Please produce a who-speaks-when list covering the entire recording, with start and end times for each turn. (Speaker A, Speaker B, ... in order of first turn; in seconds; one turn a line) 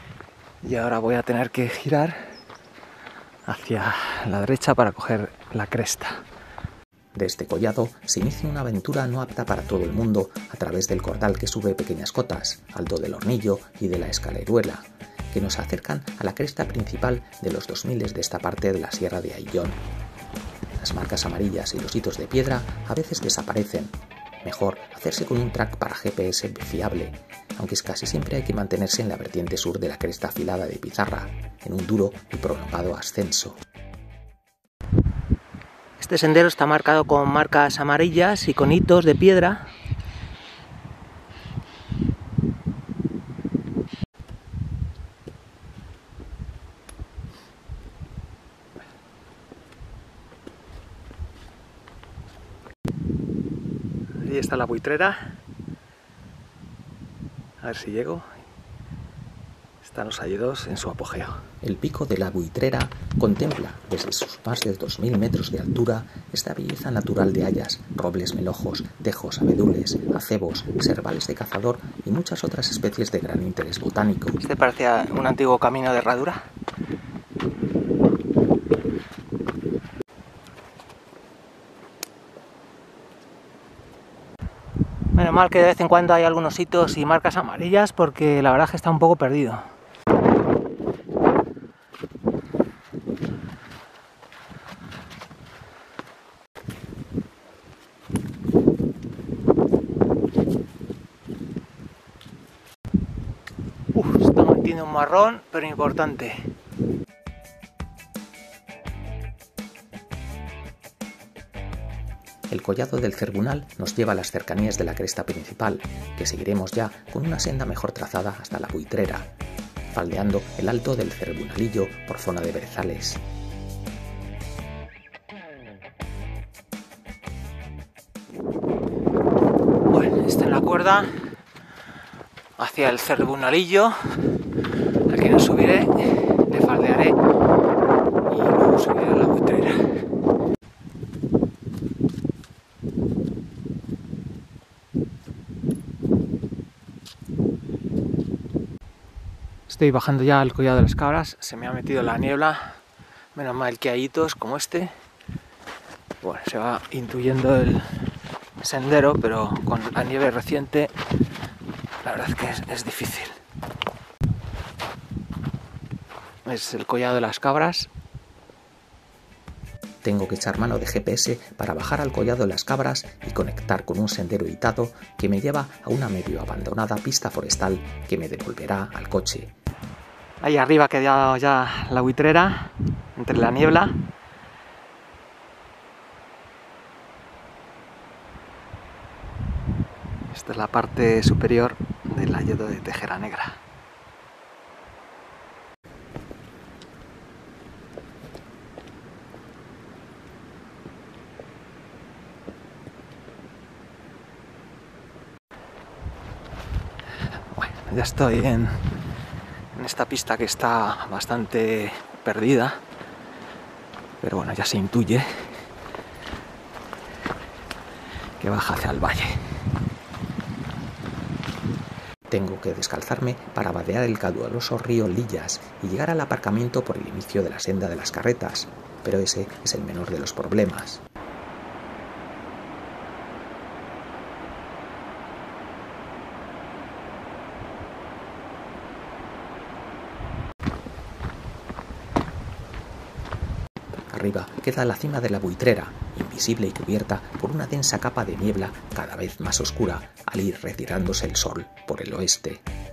Speaker A: 0.6-2.3
Speaker A: 3.5-6.2
Speaker B: 7.1-19.8
Speaker B: 20.8-33.6
Speaker A: 36.0-39.7
Speaker A: 54.2-55.3
Speaker A: 57.6-58.3
Speaker A: 59.8-61.4
Speaker B: 61.6-74.4
Speaker A: 74.4-76.4
Speaker A: 85.1-89.7
Speaker A: 103.9-106.5
Speaker B: 112.5-119.3
Speaker B: 119.9-123.2
Speaker A: 129.8-131.1
Speaker A: 132.6-134.3
Speaker A: 135.1-137.2
Speaker A: 138.3-139.9
Speaker A: 149.7-152.8
Speaker A: 153.3-154.9
Speaker A: 156.2-158.1
Speaker A: 158.6-160.9
Speaker A: 162.0-163.4
Speaker A: 166.4-167.9
Speaker B: 170.0-179.5
Speaker A: 180.4-184.0
Speaker A: 190.3-193.6
Speaker A: 207.5-208.9
Speaker A: 209.7-212.8
Speaker A: 214.2-215.6
Speaker A: 218.4-219.4
Speaker B: 222.3-231.0
Speaker B: 244.1-252.6